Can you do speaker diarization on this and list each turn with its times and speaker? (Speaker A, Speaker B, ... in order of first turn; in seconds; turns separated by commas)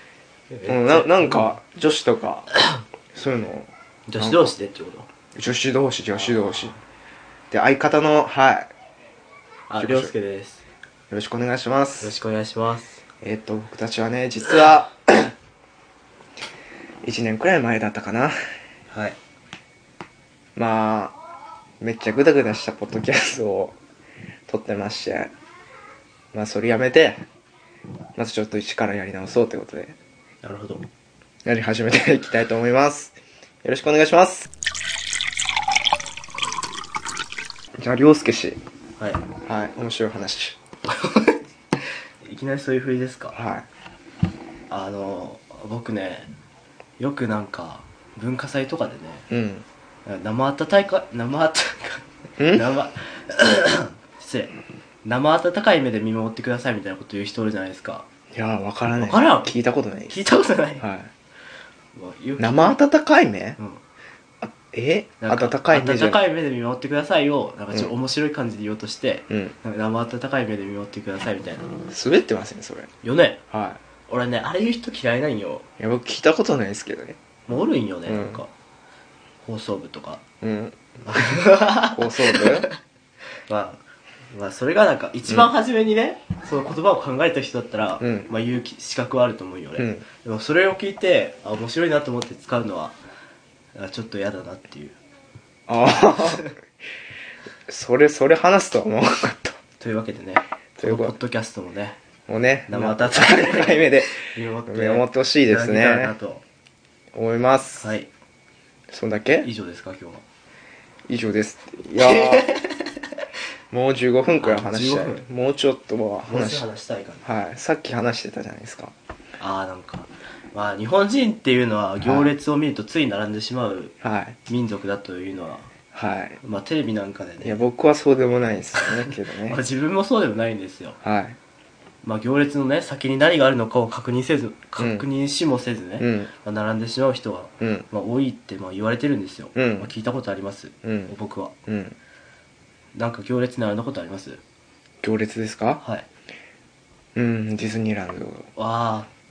Speaker A: 0.5-1.5, Speaker B: 0.7-2.5, Speaker A: 2.5-2.8, Speaker B: 3.1-4.5, Speaker A: 4.1-5.1, Speaker B: 5.3-6.7, Speaker A: 6.2-6.8, Speaker B: 7.5-8.7, Speaker A: 9.7-10.6, Speaker B: 9.8-10.1, Speaker B: 11.1-12.1, Speaker A: 12.0-13.0, Speaker B: 13.2-15.3, Speaker B: 17.0-18.3, Speaker A: 18.9-19.1, Speaker B: 20.6-21.1, Speaker B: 21.8-23.8, Speaker B: 24.5-25.3, Speaker B: 26.3-27.2, Speaker B: 28.1-30.0, Speaker A: 30.4-30.9, Speaker B: 31.4-34.5, Speaker B: 37.8-38.6, Speaker A: 39.0-39.2, Speaker B: 39.4-40.6, Speaker A: 40.9-43.4, Speaker B: 43.3-43.6, Speaker A: 44.7-46.3, Speaker A: 47.0-49.2, Speaker B: 49.3-49.6, Speaker A: 50.0-54.5, Speaker B: 52.4-52.7, Speaker A: 55.0-58.1, Speaker B: 58.3-60.2, Speaker A: 59.0-59.5, Speaker A: 60.1-60.9, Speaker B: 60.8-61.1, Speaker A: 61.9-62.8, Speaker B: 62.4-63.6, Speaker B: 64.4-66.2, Speaker A: 65.2-71.7, Speaker B: 71.9-72.9, Speaker A: 73.0-73.4, Speaker B: 73.5-73.8, Speaker A: 74.1-75.7, Speaker B: 75.8-77.2, Speaker A: 77.5-78.5, Speaker B: 78.0-78.4, Speaker A: 79.4-80.2, Speaker B: 80.4-82.7, Speaker A: 81.0-82.7, Speaker A: 83.5-93.0, Speaker B: 88.0-88.3, Speaker B: 89.8-90.0, Speaker A: 93.7-95.0, Speaker B: 95.7-96.5, Speaker B: 97.7-99.6, Speaker A: 99.8-102.0, Speaker B: 100.8-101.1, Speaker B: 102.3-106.1, Speaker A: 102.7-106.4, Speaker B: 107.1-107.9, Speaker A: 107.8-108.1, Speaker B: 108.9-109.5, Speaker A: 109.4-110.2, Speaker B: 111.1-112.5, Speaker A: 112.0-112.9, Speaker B: 113.7-116.7, Speaker A: 114.4-115.2, Speaker A: 116.3-117.3, Speaker B: 117.2-118.9, Speaker A: 119.4-123.9, Speaker B: 122.0-122.3, Speaker B: 124.0-124.4, Speaker A: 124.5-125.7, Speaker B: 125.9-126.4, Speaker A: 126.4-127.6, Speaker B: 127.4-129.6, Speaker A: 128.8-131.0, Speaker B: 131.0-131.4, Speaker A: 132.0-141.5, Speaker B: 134.8-135.1, Speaker B: 136.0-136.3, Speaker B: 137.6-137.9, Speaker B: 139.5-139.9, Speaker B: 140.8-141.1, Speaker B: 141.7-141.9, Speaker A: 142.9-144.4, Speaker B: 145.0-145.8, Speaker B: 147.1-148.5, Speaker A: 148.6-149.1